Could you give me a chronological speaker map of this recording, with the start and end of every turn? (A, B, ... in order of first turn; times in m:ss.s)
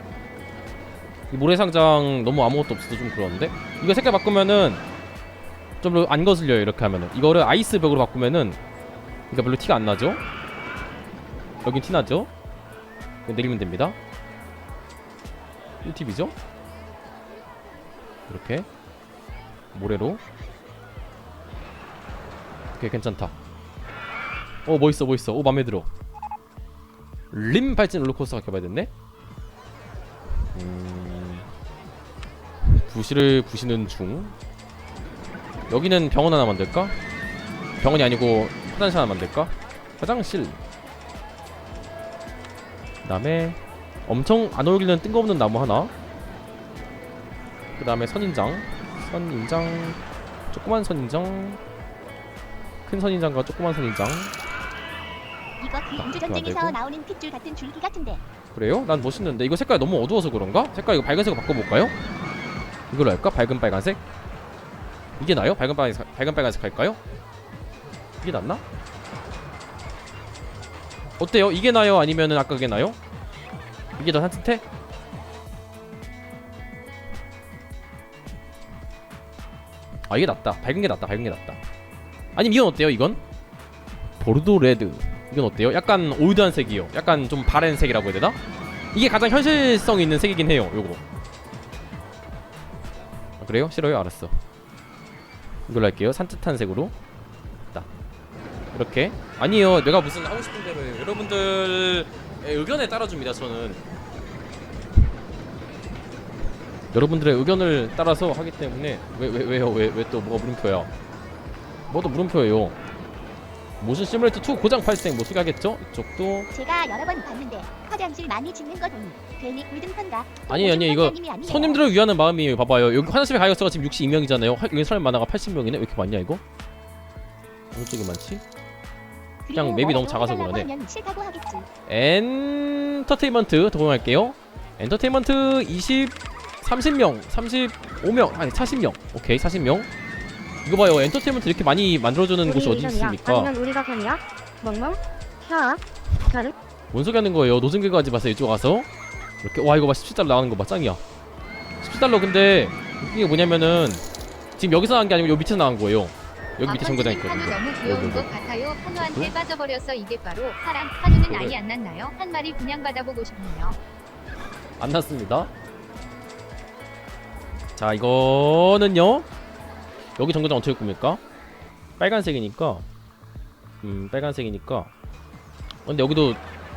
0:01.3-0:04.8 A
0:05.8-0:08.6 A
0:09.3-0:10.2 A
0:11.6-0:12.3 A
0:13.2-0:14.0 A
0:15.8-0:16.3 A
0:18.3-0:18.7 A
0:19.7-0:20.2 A
0:22.7-0:23.3 A
0:24.6-0:25.9 A
0:27.3-0:28.9 A
0:30.5-0:31.5 A
0:32.7-0:34.3 A
0:35.7-0:37.0 A
0:37.8-0:40.6 A
0:43.0-0:45.9 A
0:47.8-0:50.0 A
0:50.5-0:51.6 A
0:52.8-0:54.3 A
0:55.6-0:58.2 B
0:55.9-0:56.8 A
0:58.5-1:01.9 A
1:02.9-1:04.0 A
1:05.2-1:07.0 A
1:08.2-1:08.6 A
1:11.2-1:13.0 A
1:14.0-1:14.6 A
1:20.1-1:21.6 A
1:22.4-1:23.2 A
1:24.2-1:28.4 A
1:28.9-1:31.0 A
1:33.4-1:34.3 A
1:35.7-1:36.9 A
1:38.7-1:43.8 A
1:46.9-1:50.9 A
1:51.9-1:52.8 A
1:53.8-1:56.5 A
1:56.5-2:01.8 B
2:00.5-2:06.4 A
2:07.7-2:08.4 A
2:09.4-2:11.7 B
2:09.5-2:10.7 A
2:11.9-2:19.9 A
2:20.6-2:23.5 A
2:22.4-2:26.5 C
2:26.9-2:28.9 A
2:29.4-2:31.0 A
2:31.8-2:34.0 A
2:34.6-2:38.3 A
2:36.6-2:43.8 D
2:39.0-2:39.3 A
2:41.1-2:41.6 A
2:44.8-2:45.5 A
2:47.8-2:49.3 A
2:50.2-2:51.2 A
2:52.0-2:52.8 A
2:53.8-2:54.9 A
2:55.8-2:56.4 A